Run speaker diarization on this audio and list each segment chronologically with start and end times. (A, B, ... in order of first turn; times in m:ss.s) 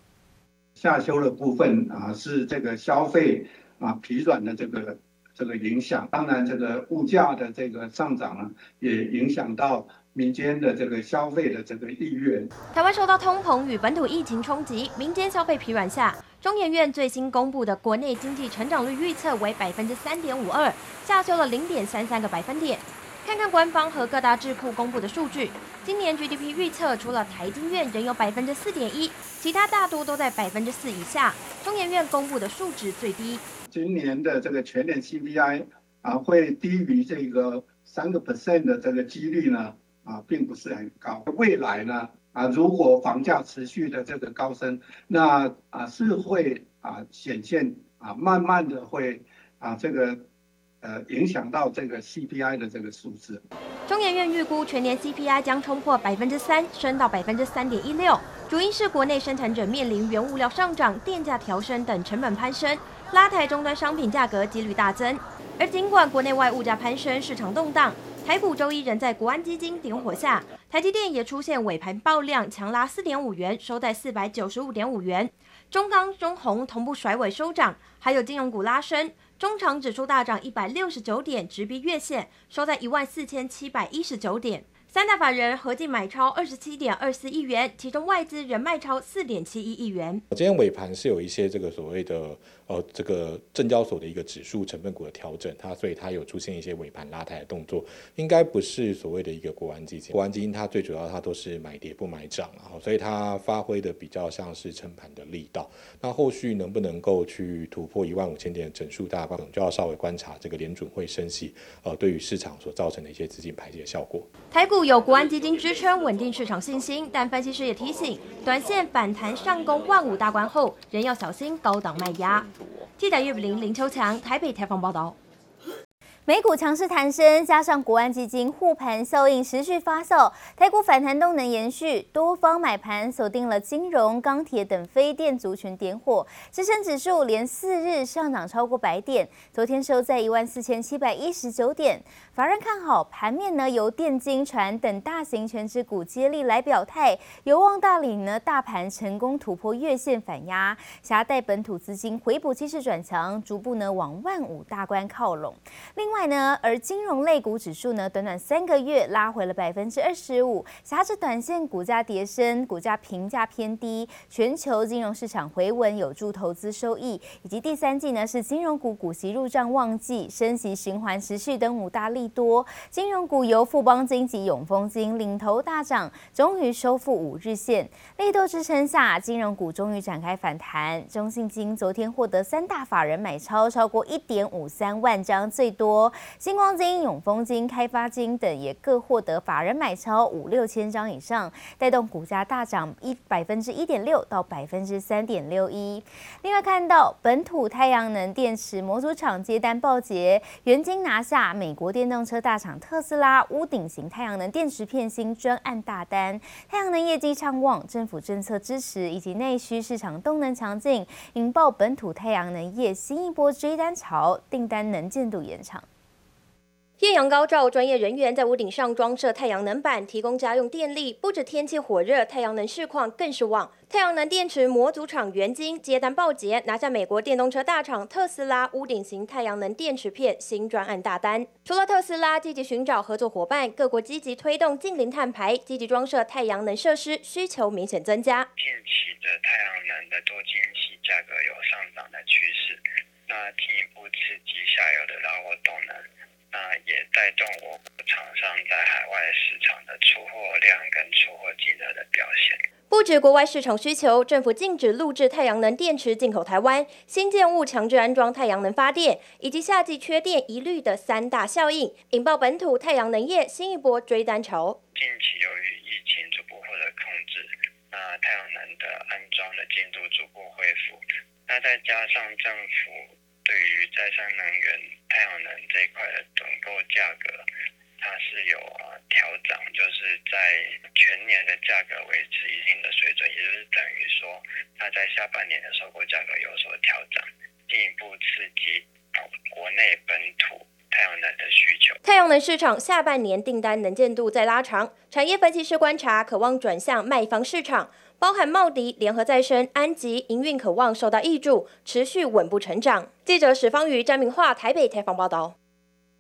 0:00.8-0:12.5 A
0:12.7-0:33.4 B
0:33.7-0:50.2 A
0:50.8-0:53.4 A
0:53.9-1:30.2 B
1:30.3-1:54.3 C
1:54.5-2:05.2 B
2:06.3-3:35.8 D
3:37.0-3:58.5 B
3:58.6-4:12.6 E
4:12.9-4:24.8 B
4:24.9-4:37.5 E
4:38.0-4:52.0 E
4:52.0-5:05.5 B